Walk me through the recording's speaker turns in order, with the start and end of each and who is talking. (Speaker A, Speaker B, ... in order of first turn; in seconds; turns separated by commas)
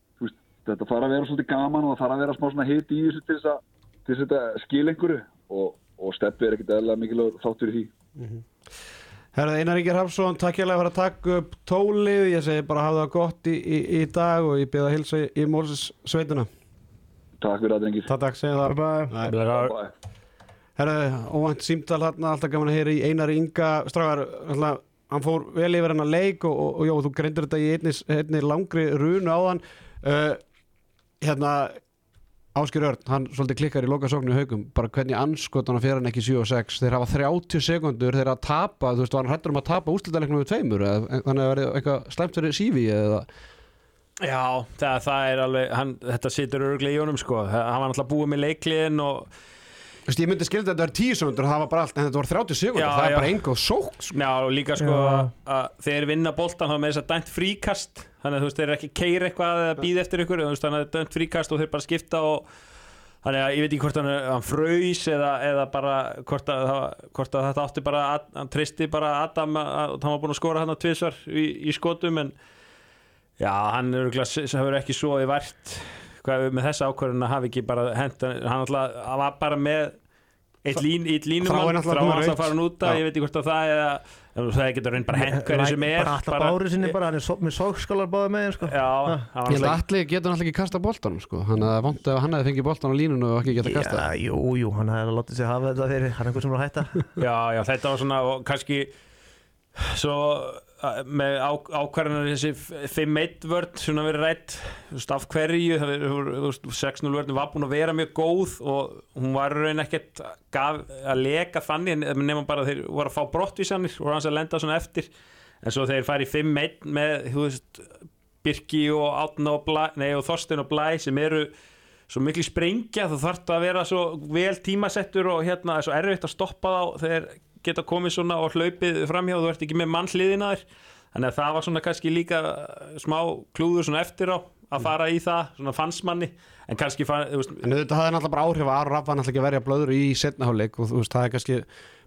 Speaker A: 0.2-7.9, Speaker B: 8.2-8.4, Speaker B: 9.3-16.5, Speaker A: 17.4-18.1, Speaker B: 18.1-19.4, Speaker C: 18.6-19.1, Speaker D: 19.3-19.8, Speaker A: 19.5-19.9, Speaker B: 20.8-30.4, Speaker B: 31.2-31.8, Speaker B: 32.5-43.3, Speaker D: 44.2-49.3, Speaker B: 50.1-54.1, Speaker D: 52.8-53.4, Speaker D: 54.1-62.5, Speaker C: 54.8-55.3, Speaker D: 63.2-72.3, Speaker D: 73.4-80.0, Speaker D: 80.6-86.9, Speaker B: 81.4-83.0, Speaker C: 85.1-89.3, Speaker D: 88.6-89.8, Speaker B: 89.5-94.0, Speaker C: 93.6-97.1, Speaker D: 97.2-98.9, Speaker D: 99.8-115.1, Speaker D: 115.6-117.9, Speaker D: 118.4-121.5, Speaker D: 122.1-137.6, Speaker B: 137.6-141.7